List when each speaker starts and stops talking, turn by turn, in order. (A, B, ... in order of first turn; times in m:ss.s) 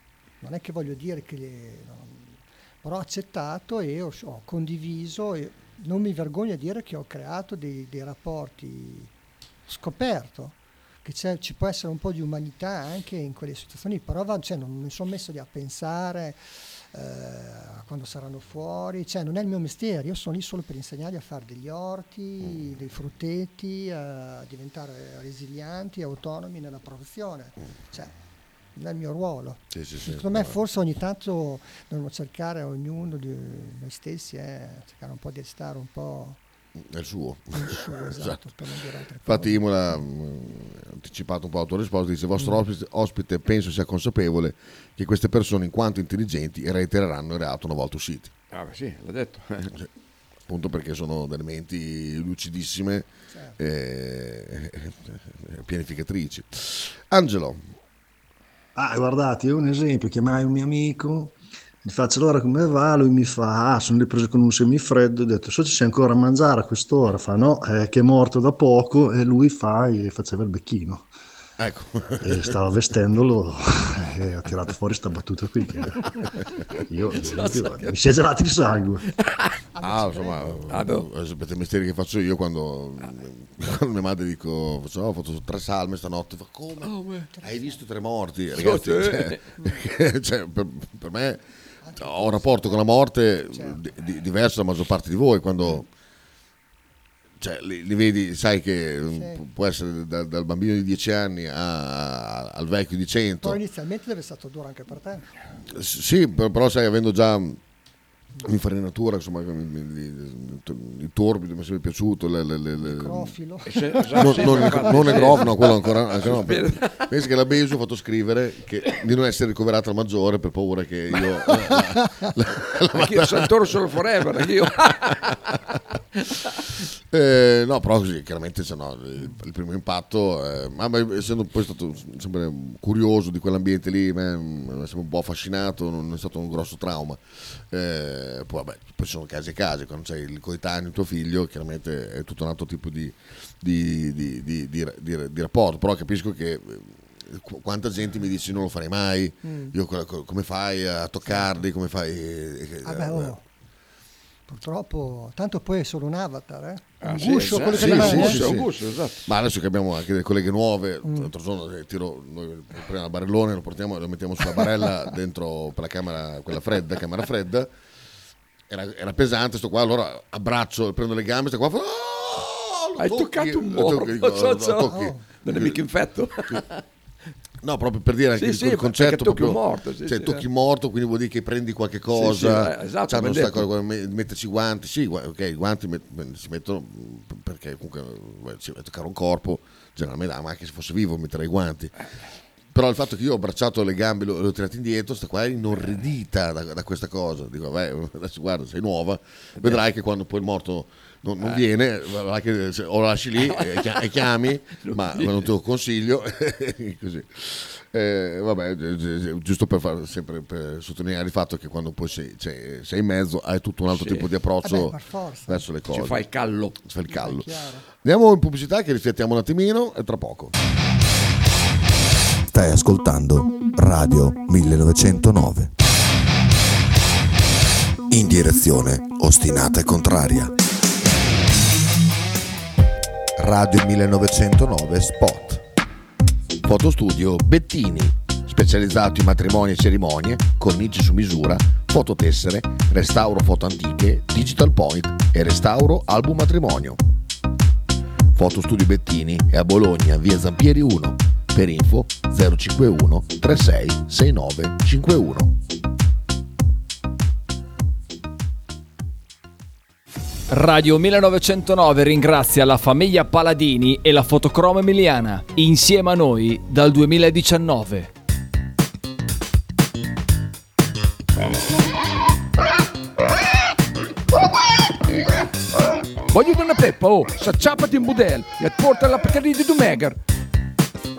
0:00.4-0:09.1 A
0:09.7-0:16.4 A
0:16.9-0:28.1 A
0:28.8-0:36.4 A
0:29.7-0:30.6 B
0:36.8-0:38.4 B
0:37.5-0:39.7 A
0:39.2-0:48.3 B
0:48.5-0:49.7 C
0:50.5-0:57.6 B
0:58.8-1:11.1 D
1:11.6-1:12.5 B
1:12.2-1:19.0 D
1:17.1-1:18.1 C
1:19.1-1:19.5 C
1:19.8-1:20.6 A
1:19.8-1:31.4 B
1:20.7-1:21.1 C
1:26.8-1:27.3 C
1:27.3-1:27.8 A
1:28.6-1:29.4 C
1:29.6-1:29.8 A
1:31.8-1:32.9 A
1:32.0-1:35.8 B
1:33.5-1:33.8 A
1:37.4-1:43.6 B
1:39.1-1:39.4 A
1:43.4-1:45.4 A
1:45.7-1:47.6 B
1:48.4-1:53.3 B
1:52.8-1:55.5 A
1:53.7-1:57.1 C
1:54.2-2:03.7 B
2:02.0-2:02.3 A
2:02.9-2:05.5 C
2:04.8-2:05.1 B
2:07.1-2:33.4 B
2:29.4-2:29.7 A
2:31.3-2:31.6 A
2:32.8-2:33.4 A
2:34.5-2:38.4 A
2:37.0-2:39.3 C
2:37.5-2:38.7 B
2:39.3-2:47.7 B
2:41.0-2:41.3 A
2:48.7-2:55.8 B
2:53.0-2:56.8 C
2:54.8-2:55.2 A
2:57.6-3:11.9 B
2:58.4-3:00.4 C
3:02.1-3:03.7 C
3:12.7-3:35.0 B
3:19.6-3:19.8 C
3:21.4-3:21.6 C
3:23.4-3:25.5 C
3:33.9-3:34.3 C
3:34.6-3:35.6 A
3:35.5-3:36.2 B
3:35.9-3:36.8 C
3:36.8-3:40.6 B
3:37.1-3:37.9 A
3:42.5-3:45.7 E
3:48.1-3:50.5 E
3:53.4-3:55.6 B
3:56.6-4:07.0 B
4:08.3-4:15.6 B
4:20.5-4:28.1 F
4:36.3-4:40.2 C